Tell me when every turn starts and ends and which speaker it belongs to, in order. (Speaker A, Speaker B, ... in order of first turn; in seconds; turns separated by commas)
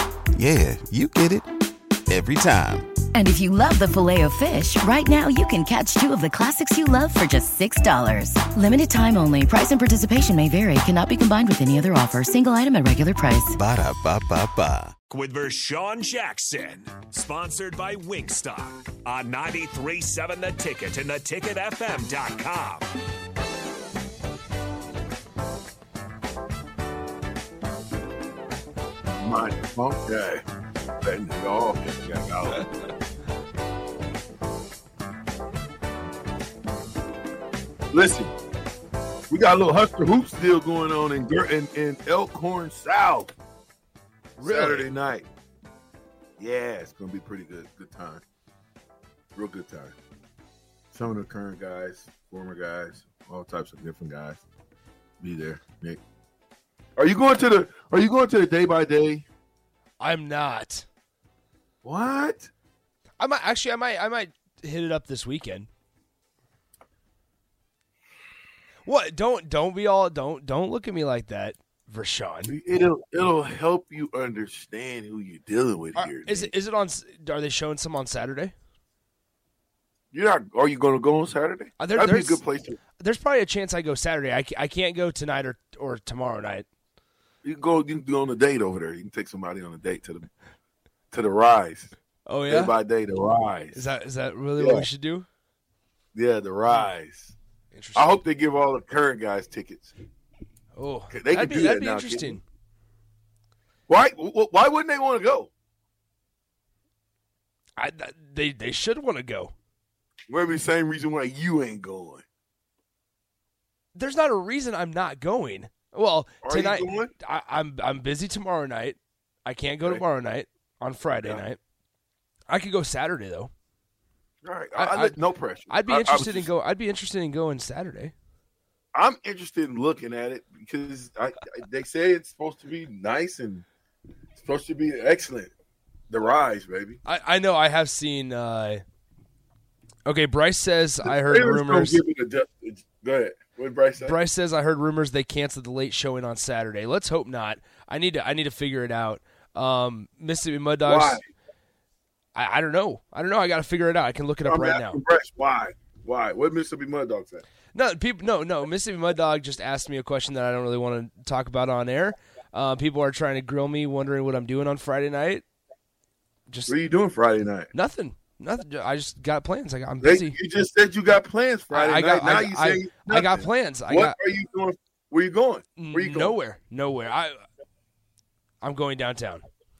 Speaker A: 0.3-1.5, Speaker A: 2.1-2.9, Speaker B: 3.1-13.6, Speaker A: 13.6-14.9, Speaker C: 15.1-22.9, Speaker D: 29.2-30.4, Speaker D: 31.0-32.7, Speaker D: 37.9-38.3, Speaker D: 39.3-43.3, Speaker E: 44.4-44.9, Speaker D: 44.4-45.3, Speaker D: 46.4-48.2, Speaker D: 49.4-50.0, Speaker D: 50.9-54.4, Speaker D: 55.2-56.0, Speaker D: 57.0-59.2, Speaker E: 60.0-60.9, Speaker D: 61.8-62.5, Speaker E: 63.2-65.7, Speaker E: 68.8-72.5, Speaker D: 72.5-76.5, Speaker E: 76.0-78.5, Speaker D: 80.1-82.8, Speaker E: 81.8-82.4, Speaker E: 83.0-86.7, Speaker D: 87.4-90.3, Speaker D: 91.1-91.9, Speaker E: 92.3-92.7, Speaker D: 92.5-93.8, Speaker E: 93.7-95.3, Speaker D: 94.6-94.9, Speaker D: 96.2-97.3, Speaker E: 97.7-98.2, Speaker D: 98.0-99.9, Speaker E: 100.8-102.4, Speaker D: 101.1-102.4, Speaker D: 103.9-105.5, Speaker E: 107.8-109.5, Speaker D: 110.3-112.2, Speaker E: 114.0-121.6, Speaker D: 116.4-117.1, Speaker E: 122.5-123.5, Speaker D: 124.4-126.5, Speaker E: 124.8-125.2, Speaker E: 125.7-128.1, Speaker D: 128.9-133.7, Speaker D: 134.4-135.5, Speaker D: 136.1-137.0, Speaker E: 137.1-138.8, Speaker E: 140.1-142.0, Speaker D: 141.1-144.2, Speaker E: 144.0-151.2, Speaker D: 150.8-151.2, Speaker E: 152.3-155.0, Speaker D: 154.4-157.4, Speaker E: 157.7-165.4, Speaker E: 166.5-166.7, Speaker D: 166.7-167.7, Speaker E: 167.7-170.3, Speaker D: 170.0-176.4, Speaker E: 171.7-174.2, Speaker E: 175.8-177.4, Speaker E: 178.6-179.4